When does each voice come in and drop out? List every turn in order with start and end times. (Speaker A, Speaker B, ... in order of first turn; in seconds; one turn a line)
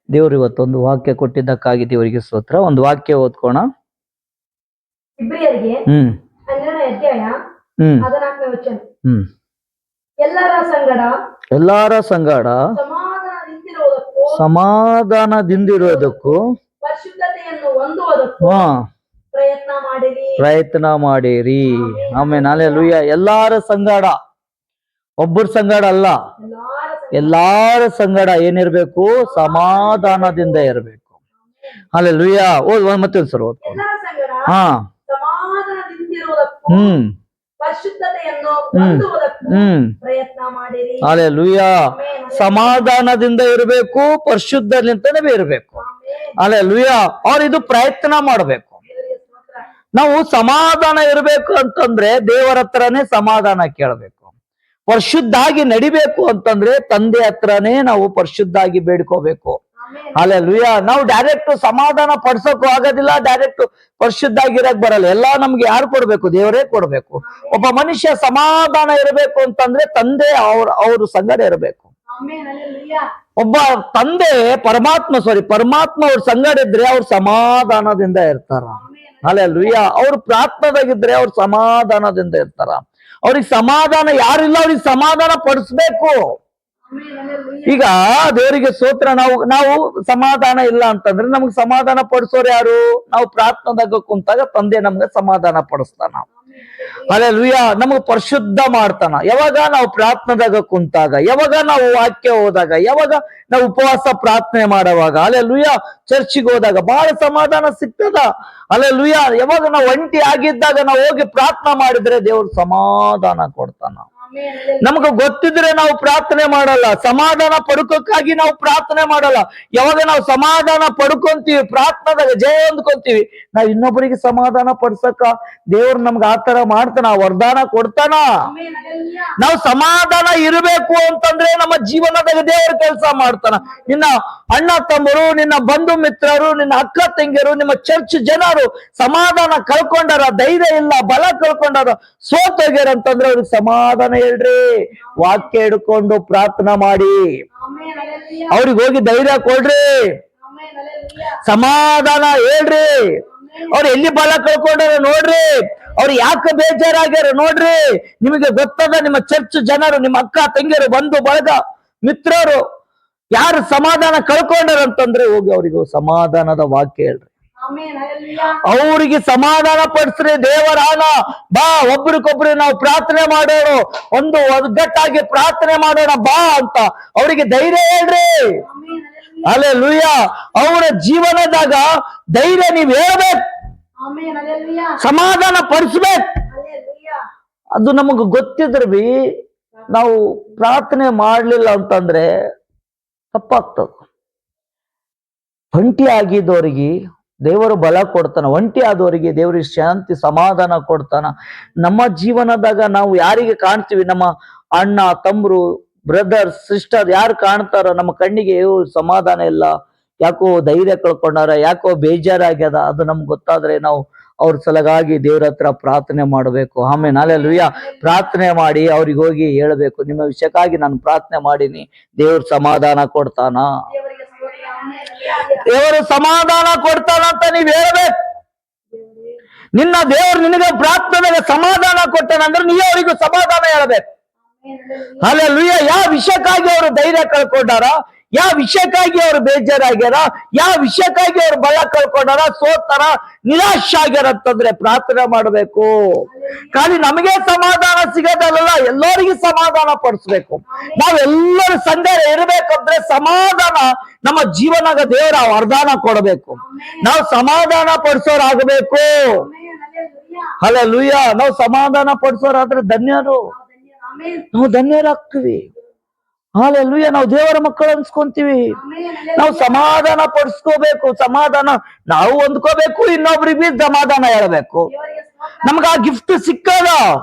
Speaker A: 0.1-3.6
Speaker B: 5.2-5.8
Speaker A: 5.9-6.1
Speaker B: 6.5-7.3
Speaker A: 7.8-8.1
Speaker B: 8.0-8.8
Speaker B: 10.2-11.1
Speaker A: 11.5-12.6
Speaker B: 12.7-14.4
Speaker A: 14.3-16.4
Speaker B: 15.5-18.6
Speaker A: 18.4-18.7
Speaker B: 19.3-20.4
Speaker A: 20.4-24.1
Speaker B: 21.7-22.9
Speaker A: 25.2-26.1
Speaker B: 26.4-27.3
Speaker A: 27.1-31.0
Speaker B: 29.3-30.7
Speaker B: 31.5-31.8
Speaker A: 31.9-33.8
Speaker B: 33.6-34.5
Speaker A: 34.5-34.8
Speaker B: 35.1-37.0
Speaker A: 36.7-37.1
Speaker B: 37.6-41.2
Speaker A: 38.7-39.9
Speaker A: 41.0-41.7
Speaker B: 41.9-42.9
Speaker A: 42.3-45.8
Speaker B: 45.8-46.3
Speaker A: 46.4-48.7
Speaker B: 48.9-49.6
Speaker A: 50.0-54.2
Speaker A: 54.9-59.6
Speaker B: 59.8-60.3
Speaker A: 60.1-71.8
Speaker B: 67.2-67.7
Speaker B: 72.1-73.0
Speaker A: 73.4-86.2
Speaker B: 78.7-79.8
Speaker B: 86.9-87.8
Speaker A: 87.7-96.2
Speaker B: 96.4-97.2
Speaker A: 97.1-114.0
Speaker B: 114.2-115.1
Speaker A: 114.8-128.2
Speaker B: 128.4-129.3
Speaker A: 129.4-144.6
Speaker B: 133.6-134.0
Speaker B: 145.1-145.5
Speaker A: 145.2-147.2
Speaker B: 147.5-148.6
Speaker A: 148.5-149.8
Speaker B: 150.4-151.4
Speaker A: 151.4-162.6
Speaker B: 153.2-153.8
Speaker A: 163.3-167.3
Speaker B: 167.6-168.6
Speaker A: 168.6-178.3
Speaker B: 178.6-179.6
Speaker A: 179.4-183.4
Speaker B: 184.0-185.0
Speaker A: 185.0-186.3
Speaker B: 186.5-187.2
Speaker A: 187.8-189.1
Speaker B: 189.8-190.1
Speaker A: 189.9-192.3
Speaker A: 193.3-193.9
Speaker A: 195.7-196.9
Speaker A: 197.4-201.3
Speaker A: 201.8-209.7
Speaker A: 210.2-223.7
Speaker B: 216.9-218.4
Speaker B: 223.9-225.6
Speaker A: 225.6-228.1
Speaker B: 228.9-229.4
Speaker A: 229.7-234.0
Speaker B: 234.5-235.4
Speaker A: 235.2-259.1
Speaker B: 246.3-247.0
Speaker B: 250.7-251.0
Speaker B: 256.6-257.1
Speaker B: 259.3-260.5
Speaker A: 260.6-263.5
Speaker B: 263.5-264.5
Speaker A: 264.5-265.7
Speaker A: 266.6-268.8
Speaker B: 268.7-269.9
Speaker A: 269.4-274.9
Speaker B: 274.9-275.8
Speaker A: 275.6-277.0